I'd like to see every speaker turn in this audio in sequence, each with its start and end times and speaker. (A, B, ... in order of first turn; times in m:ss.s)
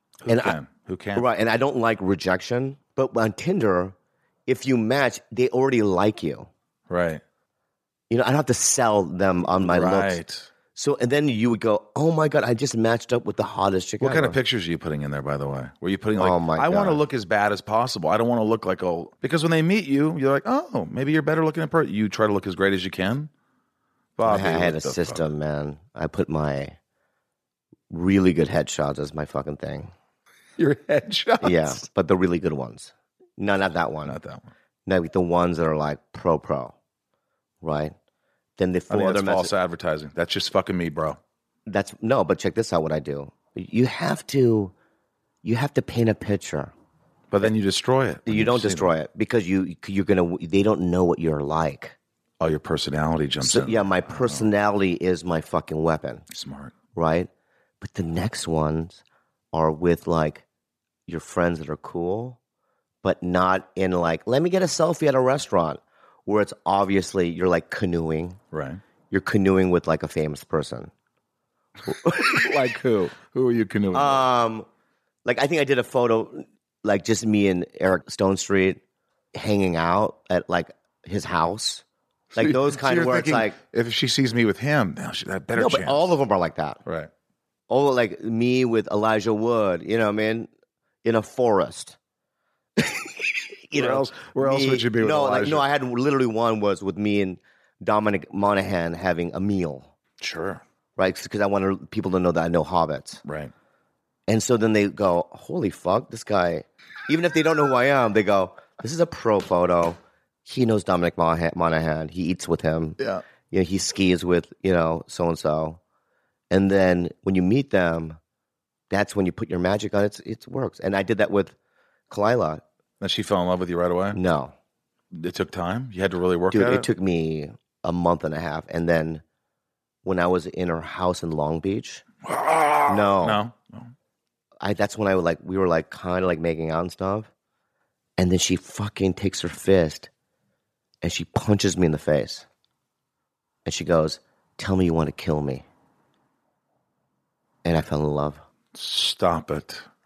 0:00.2-0:01.2 A
0:00.3-0:00.6 B
0:01.1-0:03.9 B
0:04.5-0:06.5 B
0:06.9-0:07.2 A
0:08.1-0:10.2 B
0:09.4-0:10.5 A
0:10.7-0:14.4 B
0:14.0-0:23.3 A
0:16.2-0:17.0 B
0:24.2-0:25.2 A
0:24.2-0:26.8 B
0:27.9-0:29.9 B
0:30.6-0:31.8 A
0:31.4-0:34.2 B
0:34.0-0:34.5 A
0:34.8-0:36.7 B
0:37.6-0:37.9 B
0:38.6-0:39.5 B
0:38.9-0:41.2 A
0:41.7-0:44.7 B
0:45.4-0:46.7 B
0:47.3-0:48.9 A
0:48.2-0:52.0 B
0:52.4-0:54.5 A
0:53.4-0:56.2 B
0:56.3-0:56.7 A
0:56.9-0:57.3 B
0:57.8-0:59.0 B
0:59.5-1:00.4 B
1:01.1-1:02.4 B
1:03.0-1:08.4 B
1:08.5-1:08.8 A
1:09.1-1:10.9 B
1:11.8-1:14.2 A
1:12.1-1:12.4 B
1:13.9-1:14.7 B
1:15.2-1:18.8 B
1:19.3-1:21.8 B
1:22.3-1:23.6 B
1:22.3-1:26.1 A
1:25.5-1:26.8 B
1:26.8-1:27.1 A
1:27.7-1:30.5 B
1:31.0-1:32.0 B
1:32.8-1:39.9 B
1:33.7-1:35.7 A
1:40.2-1:40.6 A
1:41.0-1:43.2 B
1:43.2-1:43.5 A
1:44.3-1:53.0 B
1:53.0-1:53.2 A
1:53.5-1:55.8 B
1:56.5-1:58.2 B
1:58.9-2:01.5 B
2:02.1-2:02.6 B
2:03.0-2:04.2 A
2:04.1-2:04.5 B
2:05.1-2:06.9 A
2:06.5-2:09.2 B
2:10.0-2:12.0 B
2:12.2-2:13.9 A
2:12.9-2:13.4 B
2:14.6-2:17.3 B
2:18.2-2:20.1 B
2:21.0-2:22.4 B
2:23.6-2:25.6 B
2:27.6-2:28.4 B
2:28.7-2:29.8 A